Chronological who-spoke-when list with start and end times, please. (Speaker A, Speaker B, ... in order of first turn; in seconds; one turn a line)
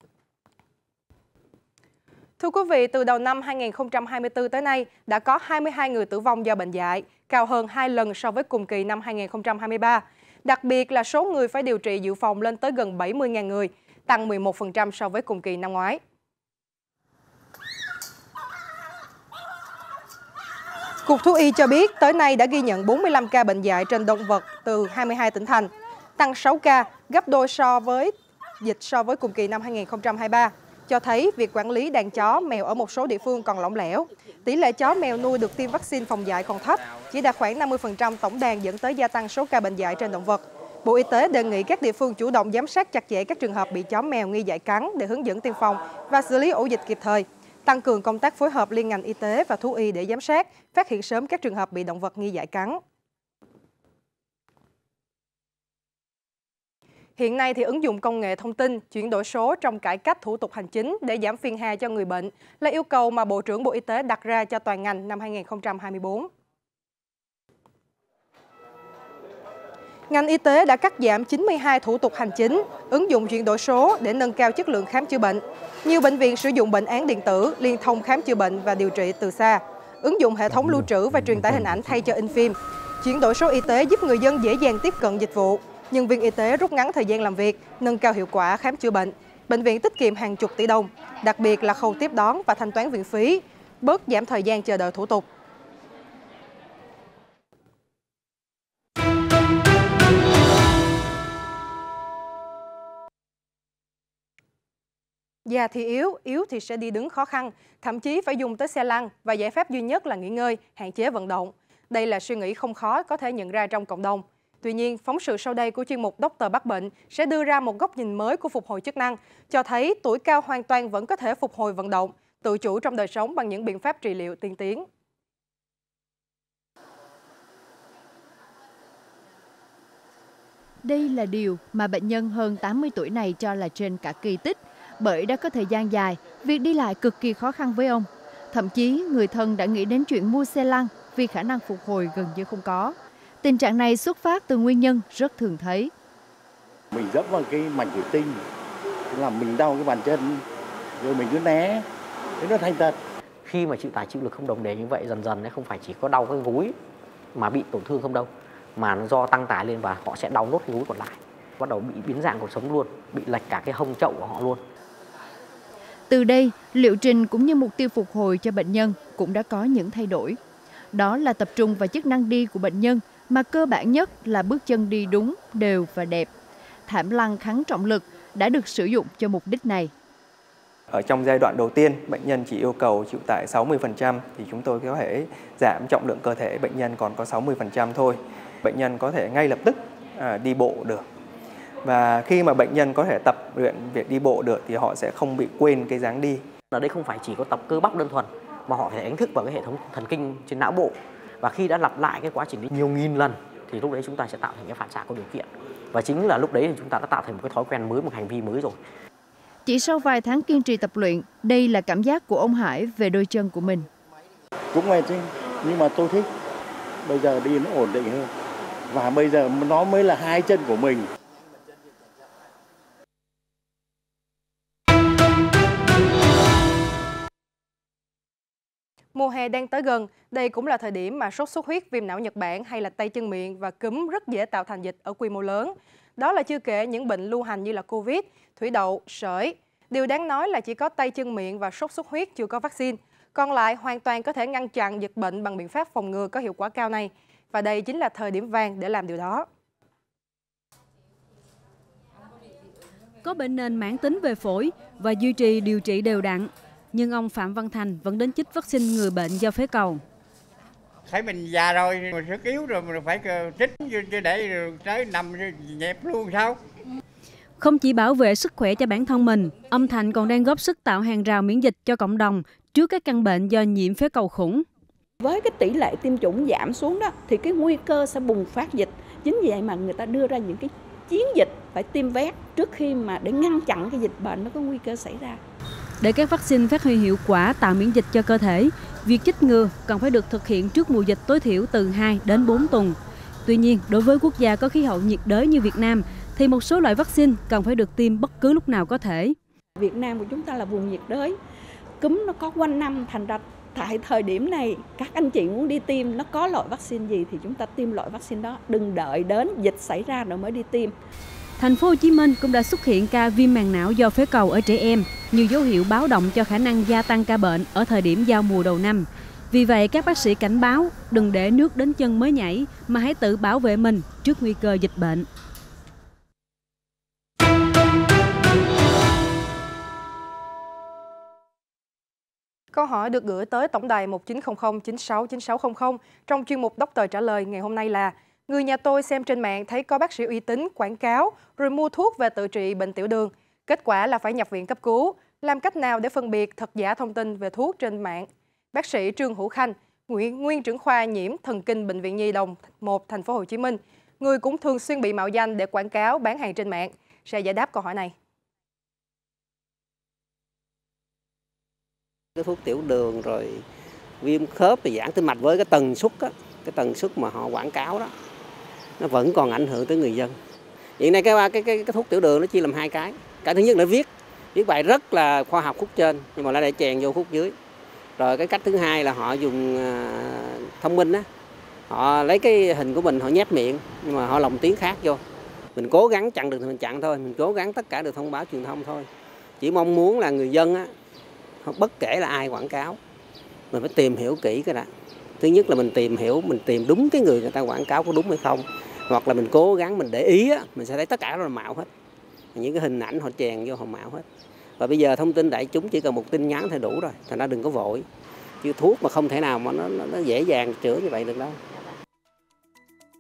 Speaker A: 2.4-16.0
Speaker A: 21.1-52.8
Speaker A: 57.2-66.3
Speaker A: 70.1-95.3
Speaker A: 105.5-124.8
Speaker B: 130.8-145.9
Speaker C: 146.9-148.4
Speaker C: 149.1-150.4
Speaker C: 151.0-151.9
Speaker C: 152.4-153.0
Speaker D: 153.4-156.8
Speaker D: 157.3-164.6
Speaker B: 166.1-170.4
Speaker B: 170.9-176.3
Speaker B: 176.9-179.9
Speaker E: 180.9-191.1
Speaker E: 191.8-196.5
Speaker D: 196.7-208.8
Speaker B: 209.7-213.9
Speaker C: 214.7-216.3
Speaker C: 217.0-218.3
Speaker C: 218.9-221.1
Speaker A: 229.1-249.4
Speaker F: 253.2-260.0
Speaker G: 261.1-266.6
Speaker F: 267.6-274.6
Speaker H: 275.2-285.4
Speaker F: 286.0-299.4
Speaker H: 299.8-301.4
Speaker H: 302.0-310.9
Speaker F: 311.6-325.3
Speaker A: 332.7-358.1
Speaker I: 362.4-363.6
Speaker I: 364.2-368.1
Speaker I: 369.0-370.4
Speaker I: 371.0-377.6
Speaker I: 378.2-381.3
Speaker I: 381.9-385.2
Speaker I: 385.8-389.1
Speaker I: 389.6-390.9
Speaker I: 391.6-393.0
Speaker I: 393.7-394.9
Speaker I: 395.4-401.9
Speaker I: 402.6-404.2
Speaker I: 404.8-408.1
Speaker I: 408.6-411.6